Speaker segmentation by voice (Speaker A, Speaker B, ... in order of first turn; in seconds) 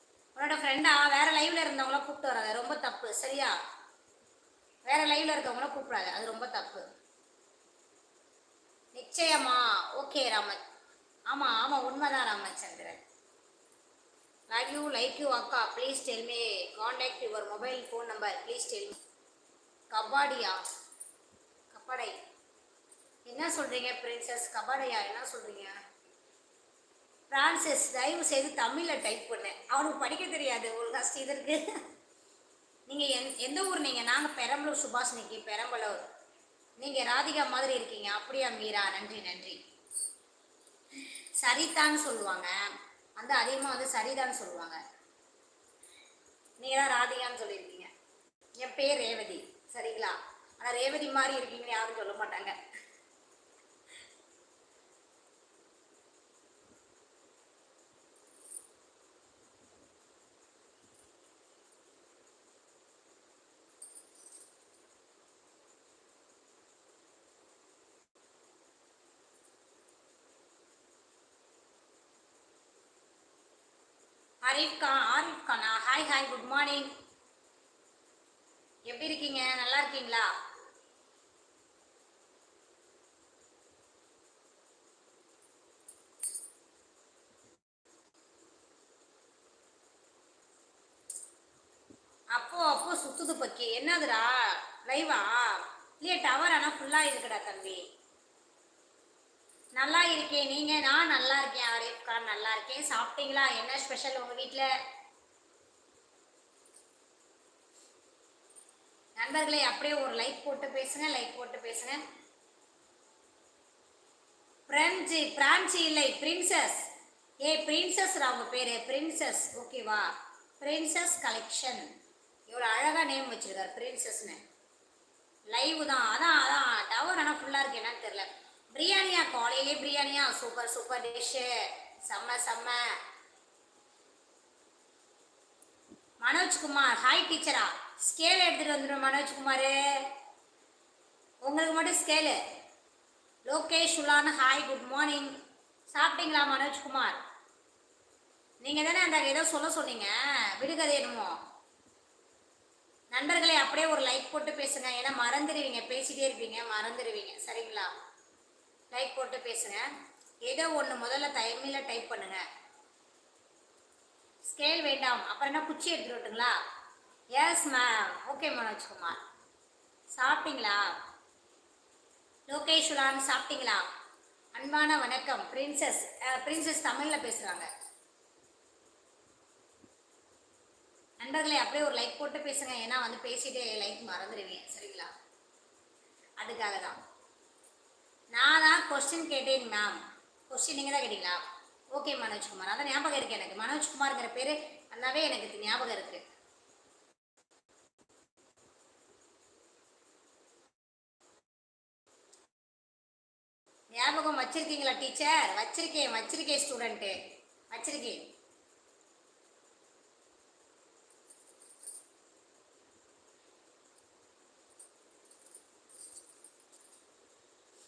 Speaker A: 0.3-3.5, 4.8-6.8, 8.9-10.6, 11.3-13.0, 14.5-19.0, 19.9-20.6, 21.7-22.1, 23.2-25.8, 27.3-31.6, 32.9-36.0, 36.8-39.6, 41.0-42.5, 43.2-44.8, 46.6-47.9, 48.6-52.5, 74.4-76.9, 78.9-80.3, 92.3-97.8, 99.8-104.7, 109.2-112.0, 114.7-116.9, 117.4-120.1, 120.6-121.9, 122.5-124.4, 125.5-131.5, 132.1-132.8, 136.2-140.1, 141.4-142.4, 143.5-145.3, 145.9-147.2, 148.6-151.4, 153.1-157.9, 158.9-159.8, 160.4-162.4, 164.5-166.5, 167.3-169.2, 170.1-170.9, 172.5-173.8, 174.5-177.7, 181.2-185.1, 186.4-187.0, 188.3-196.2, 204.0-207.1, 207.7-208.2